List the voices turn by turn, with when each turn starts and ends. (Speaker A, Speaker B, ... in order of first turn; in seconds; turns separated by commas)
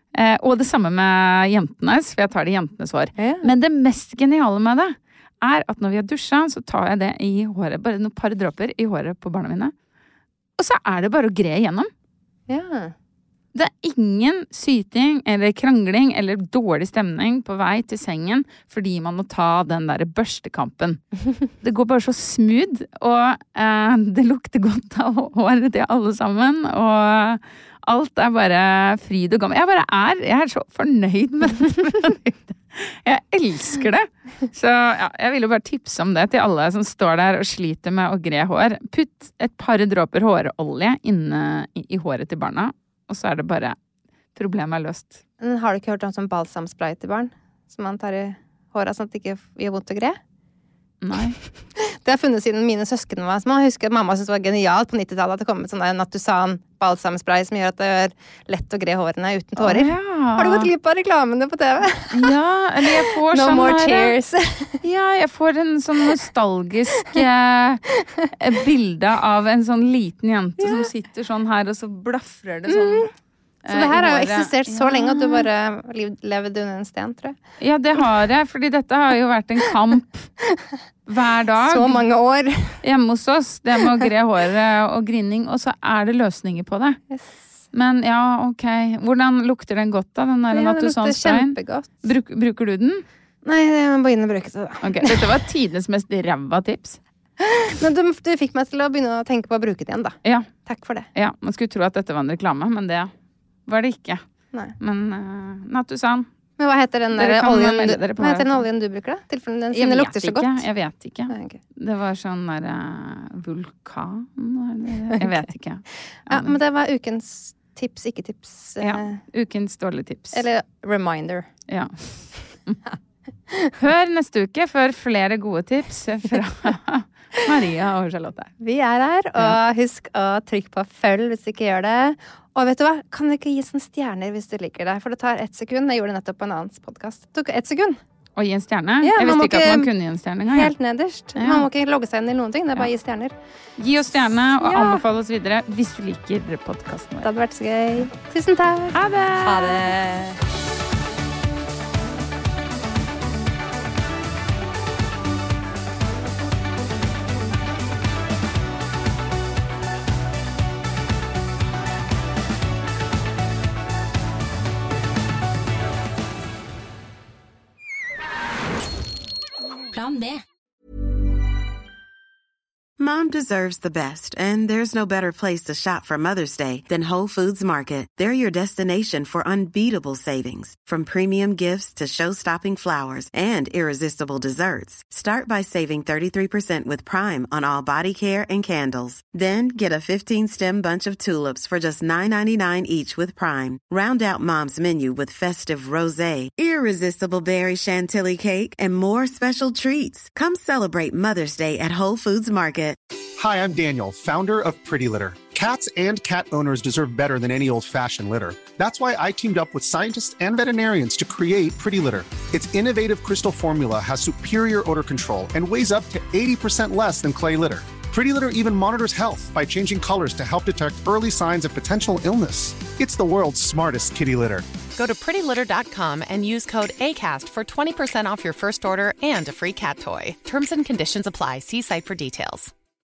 Speaker A: 0.1-9.7, Speaker B: 3.2-3.5, Speaker A: 10.6-11.9, Speaker B: 12.5-12.9, Speaker A: 13.5-21.0, Speaker A: 21.6-43.8, Speaker A: 44.3-45.2, Speaker B: 45.4-50.2, Speaker A: 51.0-51.4, Speaker B: 51.8-62.3, Speaker A: 59.6-60.7, Speaker A: 62.1-64.1, Speaker B: 62.8-64.8, Speaker A: 64.8-67.8, Speaker A: 68.3-73.1, Speaker B: 70.6-70.9, Speaker B: 72.7-73.1, Speaker A: 73.6-75.5, Speaker B: 73.7-77.4, Speaker A: 77.6-80.3, Speaker A: 81.1-82.0, Speaker B: 81.7-82.8, Speaker A: 82.8-87.0, Speaker A: 87.7-93.0, Speaker B: 90.5-91.9, Speaker B: 93.4-95.3, Speaker A: 94.8-97.0, Speaker B: 97.4-101.1, Speaker A: 101.1-103.1, Speaker A: 103.7-104.2, Speaker A: 104.8-106.3, Speaker B: 106.6-110.6, Speaker A: 107.1-108.7, Speaker A: 109.7-116.5, Speaker B: 111.3-111.6, Speaker B: 116.2-119.2, Speaker A: 118.8-120.4, Speaker B: 120.3-121.5, Speaker A: 121.7-122.8, Speaker B: 123.5-123.7, Speaker A: 123.8-128.5, Speaker B: 128.6-138.0, Speaker A: 138.4-140.7, Speaker B: 139.0-139.9, Speaker B: 140.5-143.3, Speaker A: 141.3-141.7, Speaker A: 143.8-147.3, Speaker B: 144.6-145.0, Speaker B: 147.2-150.4, Speaker A: 148.9-149.9, Speaker C: 173.0-203.0, Speaker D: 203.4-224.6, Speaker E: 224.9-232.7